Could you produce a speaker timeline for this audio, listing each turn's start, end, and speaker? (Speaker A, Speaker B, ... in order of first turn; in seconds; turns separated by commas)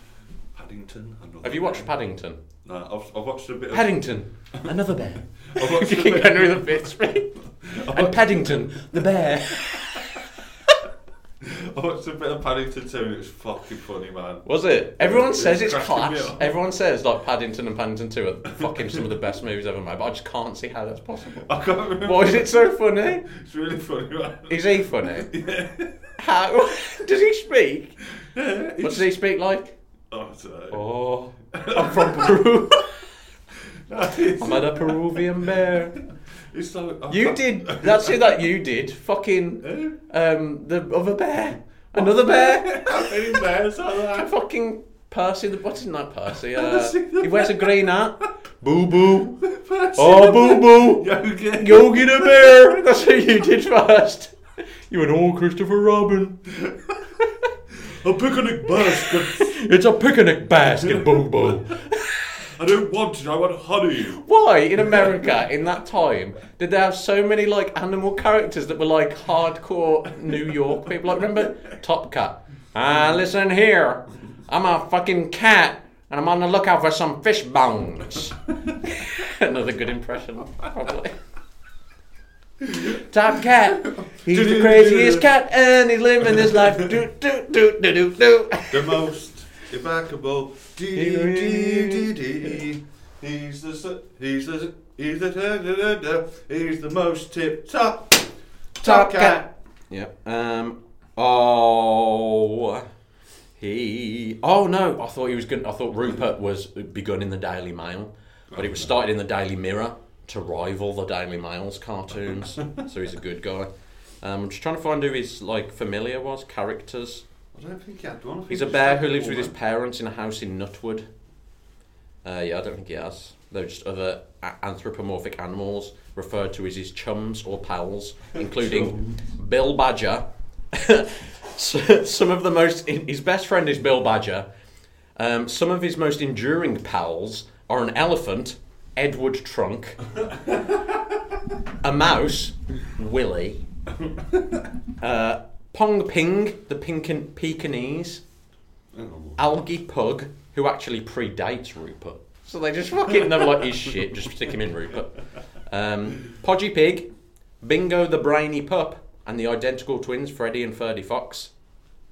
Speaker A: 0.5-1.9, Speaker B: 1.4-2.4, Speaker A: 2.6-4.8, Speaker B: 3.7-10.7, Speaker A: 5.4-10.2, Speaker A: 11.4-14.4, Speaker B: 14.4-23.2, Speaker A: 15.0-16.6, Speaker A: 18.5-19.1, Speaker A: 21.4-26.1, Speaker B: 24.5-25.3, Speaker B: 26.2-28.0, Speaker A: 28.2-29.1, Speaker B: 28.8-29.8, Speaker A: 30.1-30.9, Speaker B: 30.7-33.1, Speaker A: 31.5-32.4, Speaker A: 33.6-38.5, Speaker B: 34.4-36.0, Speaker B: 37.1-43.3, Speaker A: 39.6-40.0, Speaker A: 41.9-44.3, Speaker B: 43.9-49.4, Speaker A: 46.3-48.0, Speaker A: 49.1-52.8, Speaker B: 49.9-54.3, Speaker B: 54.9-56.5, Speaker A: 56.5-57.1, Speaker B: 57.2-57.5, Speaker A: 57.7-59.5, Speaker B: 58.7-62.5, Speaker A: 60.8-61.8, Speaker A: 62.4-64.2, Speaker B: 64.1-81.2, Speaker A: 64.8-65.3, Speaker A: 82.6-83.0, Speaker B: 82.8-89.1, Speaker A: 83.7-85.3, Speaker A: 86.2-86.9, Speaker A: 88.7-99.5, Speaker B: 90.9-92.6, Speaker B: 98.8-102.9, Speaker B: 103.6-113.7, Speaker A: 108.5-109.0, Speaker B: 114.2-117.2, Speaker A: 117.5-119.5, Speaker B: 118.5-121.1, Speaker B: 122.2-134.5, Speaker A: 128.4-129.3, Speaker B: 135.2-140.1, Speaker A: 140.3-140.7, Speaker B: 141.8-143.6, Speaker A: 144.1-144.7, Speaker B: 145.0-148.2, Speaker A: 148.9-149.4, Speaker B: 149.4-157.1, Speaker A: 153.4-153.7, Speaker B: 157.6-161.5